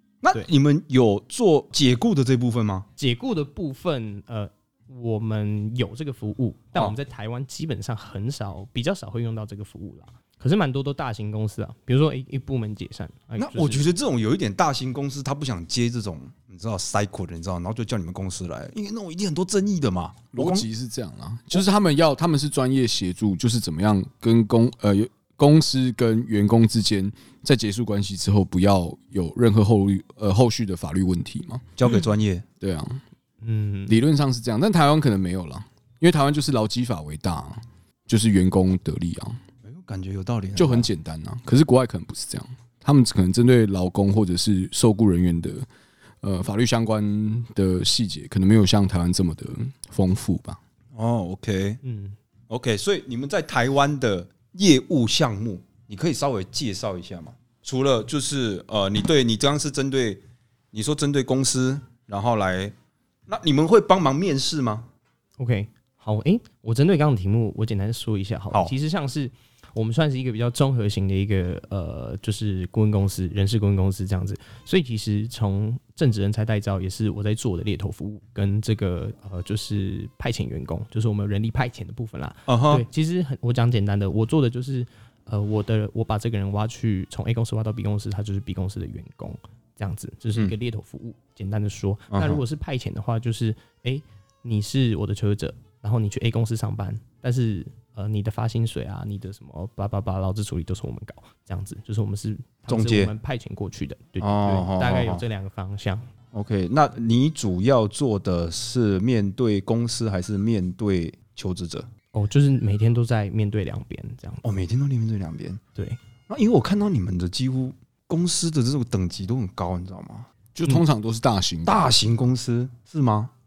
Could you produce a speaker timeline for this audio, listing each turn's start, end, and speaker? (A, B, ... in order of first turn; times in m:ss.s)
0:00.2-0:02.9 A
0:03.0-0:13.9 B
0:13.4-0:20.7 A
0:20.3-0:31.6 C
0:31.8-0:32.4 A
0:32.6-0:33.0 C
0:33.4-0:34.0 B
0:33.9-0:39.4 C
0:39.6-0:40.9 A
0:40.6-0:45.7 C
0:46.2-0:50.6 C
0:51.0-0:51.8 A
0:51.8-0:52.2 B
0:52.5-1:00.2 A
1:00.7-1:02.7 A
1:03.3-1:04.9 A
1:05.4-1:46.1 B
1:22.5-1:22.8 A
1:32.1-1:32.4 A
1:42.7-1:43.1 A
1:44.2-1:45.2 A
1:46.3-1:51.9 A
1:52.1-1:54.4 B
1:54.4-1:55.6 A
1:56.3-2:00.3 A
2:00.6-2:01.9 C
2:01.6-2:03.3 A